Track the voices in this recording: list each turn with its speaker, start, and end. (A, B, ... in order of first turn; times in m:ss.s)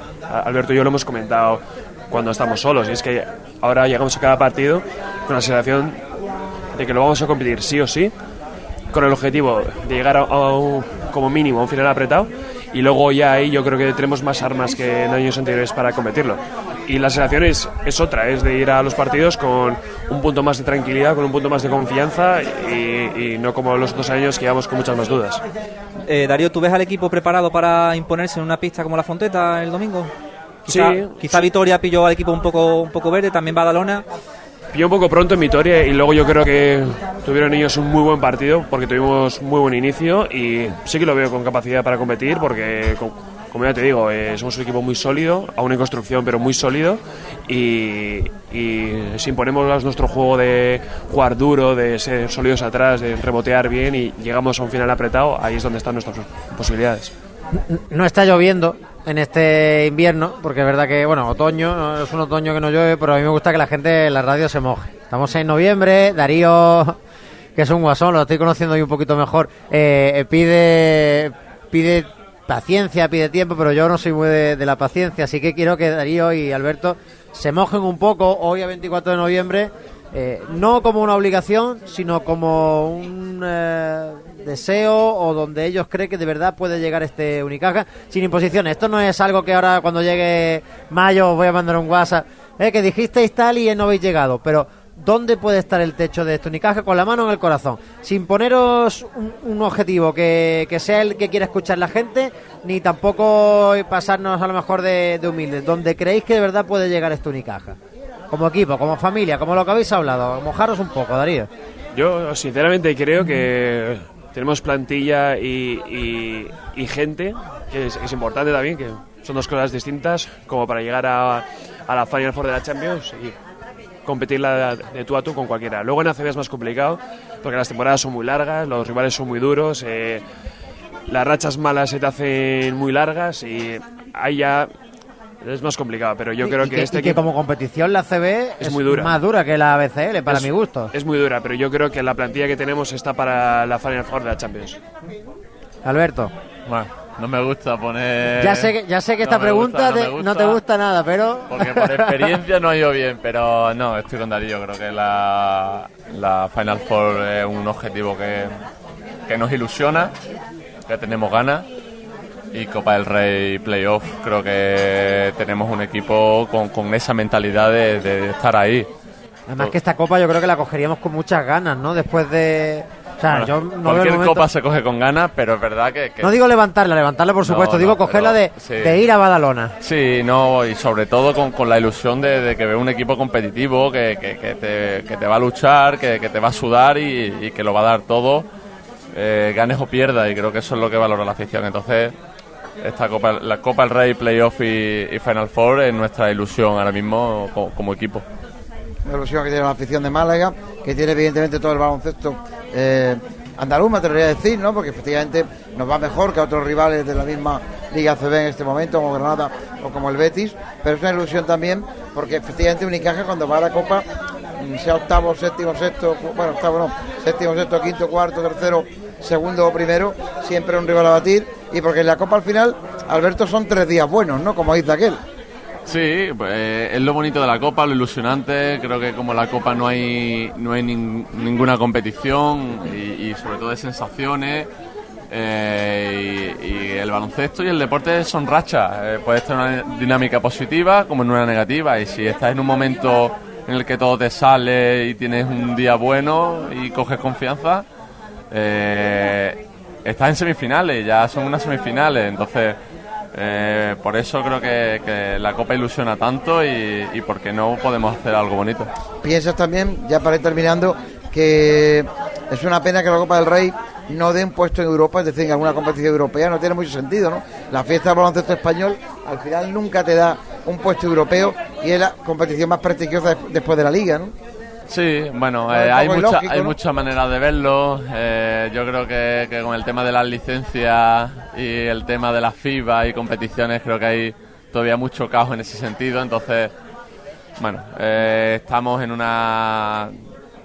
0:00.3-0:06.0 A
0:06.8-0:08.1 A
0:08.9-0:25.4 A
0:26.1-0:30.1 B
0:30.6-0:34.0 B
0:30.7-0:31.5 A
0:34.7-0:57.1 A
0:57.5-1:07.0 C
1:07.6-1:47.8 C
1:48.3-1:51.5 C
1:51.9-2:03.4 A
2:04.0-2:10.2 A
2:11.1-2:14.7 A
2:15.4-2:17.2 A
2:16.4-2:20.9 C
2:18.6-2:19.2 A
2:20.3-2:24.8 A
2:25.8-2:26.3 C
2:26.7-2:30.6 D
2:28.3-2:32.4 C
2:31.5-2:38.6 D
2:39.3-2:40.1 D
2:40.9-2:41.6 D
2:42.5-2:48.9 D
2:49.5-2:54.5 C
2:53.3-2:56.3 D
2:56.2-2:59.7 C
2:57.4-2:59.0 D
2:59.8-3:08.4 D
3:09.1-3:12.1 D
3:12.8-3:18.2 D
3:19.0-3:34.0 E
3:34.6-3:45.2 E
3:45.8-3:54.7 D
3:55.3-4:07.8 D
4:08.5-4:12.8 D
4:13.3-4:18.9 D
4:19.2-4:34.3 E
4:34.9-4:46.7 D
4:35.7-4:36.8 E
4:47.6-4:50.2 D